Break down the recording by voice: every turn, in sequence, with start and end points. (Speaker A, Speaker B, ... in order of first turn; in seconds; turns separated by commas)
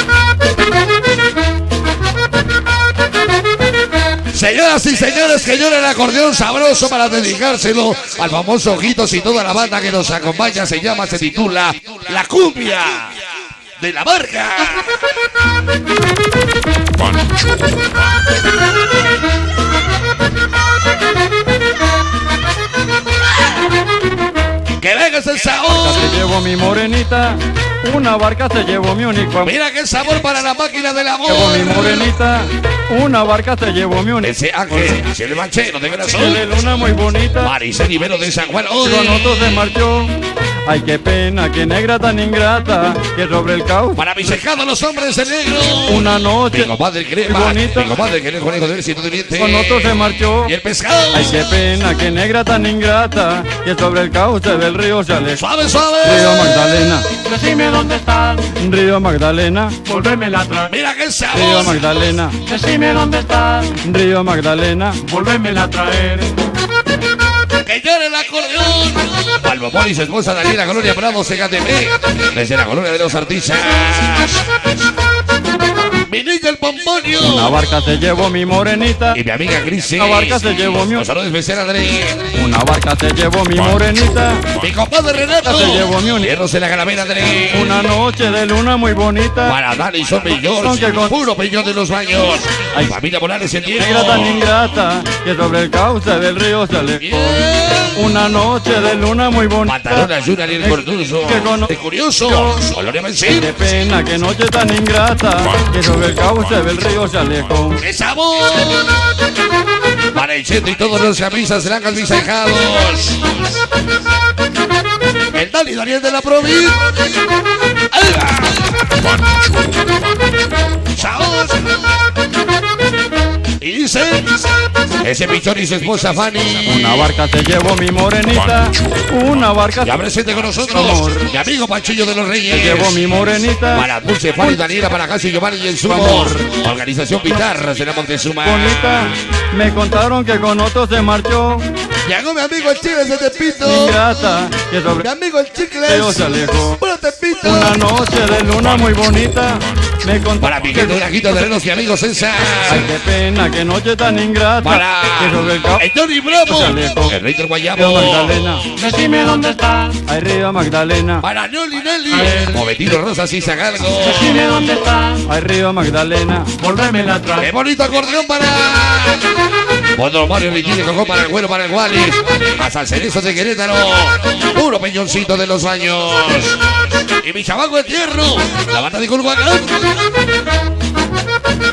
Speaker A: 4.3-13.3, Speaker A: 13.8-15.0, Speaker A: 24.7-26.1, Speaker B: 25.7-29.5, Speaker A: 29.4-32.1, Speaker B: 31.2-35.0, Speaker A: 34.2-36.4, Speaker B: 36.1-37.5, Speaker A: 37.4-39.5, Speaker B: 38.8-40.1, Speaker B: 40.6-44.0, Speaker A: 44.0-51.5, Speaker B: 45.9-46.7, Speaker B: 47.2-47.9, Speaker B: 49.4-50.5, Speaker B: 51.1-55.4, Speaker A: 55.3-56.7, Speaker B: 56.0-57.1, Speaker C: 57.2-58.5, Speaker B: 58.4-59.8, Speaker C: 59.8-60.7, Speaker A: 60.6-61.8, Speaker B: 61.3-62.4, Speaker C: 62.4-63.8, Speaker B: 63.7-65.0, Speaker C: 65.0-66.3, Speaker A: 67.6-74.5, Speaker A: 76.0-77.6, Speaker B: 77.2-79.2, Speaker A: 79.1-82.3, Speaker B: 80.0-81.0, Speaker B: 82.3-84.5, Speaker A: 84.5-87.8, Speaker B: 85.4-86.3, Speaker B: 87.5-89.6, Speaker A: 89.5-94.5, Speaker B: 90.6-91.1, Speaker B: 93.8-97.1, Speaker A: 97.0-98.1, Speaker B: 97.9-100.1, Speaker A: 99.6-103.5, Speaker B: 100.6-101.7, Speaker B: 103.3-107.8, Speaker A: 107.8-109.2, Speaker A: 110.1-113.4, Speaker A: 115.3-117.0, Speaker A: 117.9-119.0, Speaker A: 120.8-121.8, Speaker A: 123.6-124.3, Speaker A: 125.0-127.1, Speaker B: 126.6-130.0, Speaker A: 129.8-133.0, Speaker B: 130.7-131.3, Speaker B: 132.5-133.8, Speaker A: 133.7-138.9, Speaker B: 135.8-136.5, Speaker B: 138.4-141.7, Speaker A: 142.0-144.0, Speaker B: 143.6-145.1, Speaker A: 144.9-147.8, Speaker B: 145.8-146.8, Speaker B: 147.4-151.0, Speaker A: 150.4-152.9, Speaker B: 152.7-155.8, Speaker A: 154.6-158.7, Speaker B: 156.4-157.2, Speaker B: 157.8-158.6, Speaker C: 158.8-160.0, Speaker B: 160.1-161.2, Speaker A: 161.2-164.6, Speaker C: 162.1-162.6, Speaker C: 163.9-165.2, Speaker B: 165.2-166.5, Speaker C: 166.6-167.5, Speaker A: 167.4-169.4, Speaker A: 169.9-180.0